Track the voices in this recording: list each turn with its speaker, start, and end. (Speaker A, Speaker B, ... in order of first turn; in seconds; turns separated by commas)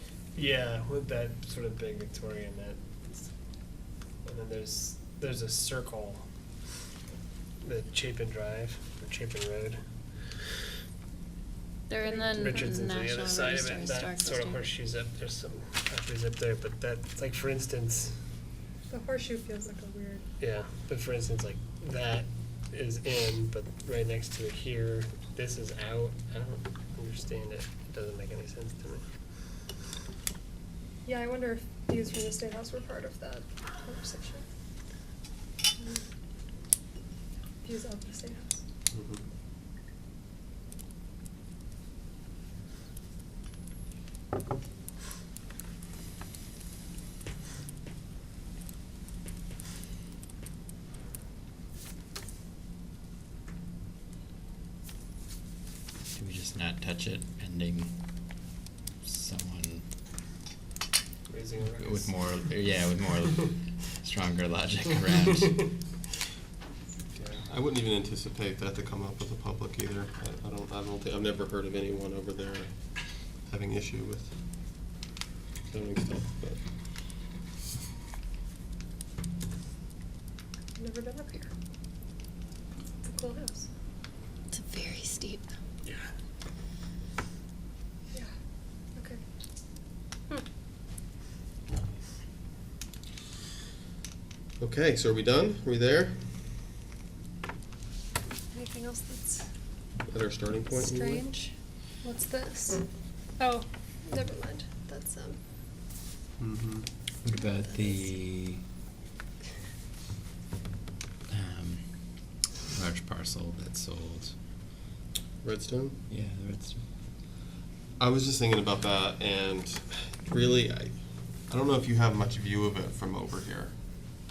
Speaker A: 0.4-3.3, Speaker A: 4.2-6.2, Speaker A: 7.6-9.8, Speaker B: 11.9-14.6, Speaker C: 12.0-12.7, Speaker A: 12.1-18.2, Speaker C: 18.9-20.2, Speaker A: 20.4-29.1, Speaker C: 31.1-34.5, Speaker C: 35.8-36.0, Speaker C: 37.6-38.6, Speaker D: 38.9-39.2, Speaker E: 56.1-58.0, Speaker E: 59.0-59.9, Speaker A: 61.3-62.3, Speaker E: 61.8-65.7, Speaker A: 67.2-67.4, Speaker D: 67.4-74.4, Speaker D: 75.7-76.7, Speaker C: 80.8-81.5, Speaker C: 83.0-83.7, Speaker B: 84.5-85.5, Speaker A: 85.8-86.1, Speaker C: 89.0-89.2, Speaker D: 94.6-96.4, Speaker C: 98.5-99.5, Speaker D: 100.1-101.3, Speaker C: 100.7-102.8, Speaker C: 103.4-105.4, Speaker D: 106.4-106.9, Speaker E: 107.2-108.7, Speaker C: 107.3-108.1, Speaker E: 111.3-114.4, Speaker D: 115.4-116.0, Speaker E: 116.1-116.8, Speaker D: 118.0-123.8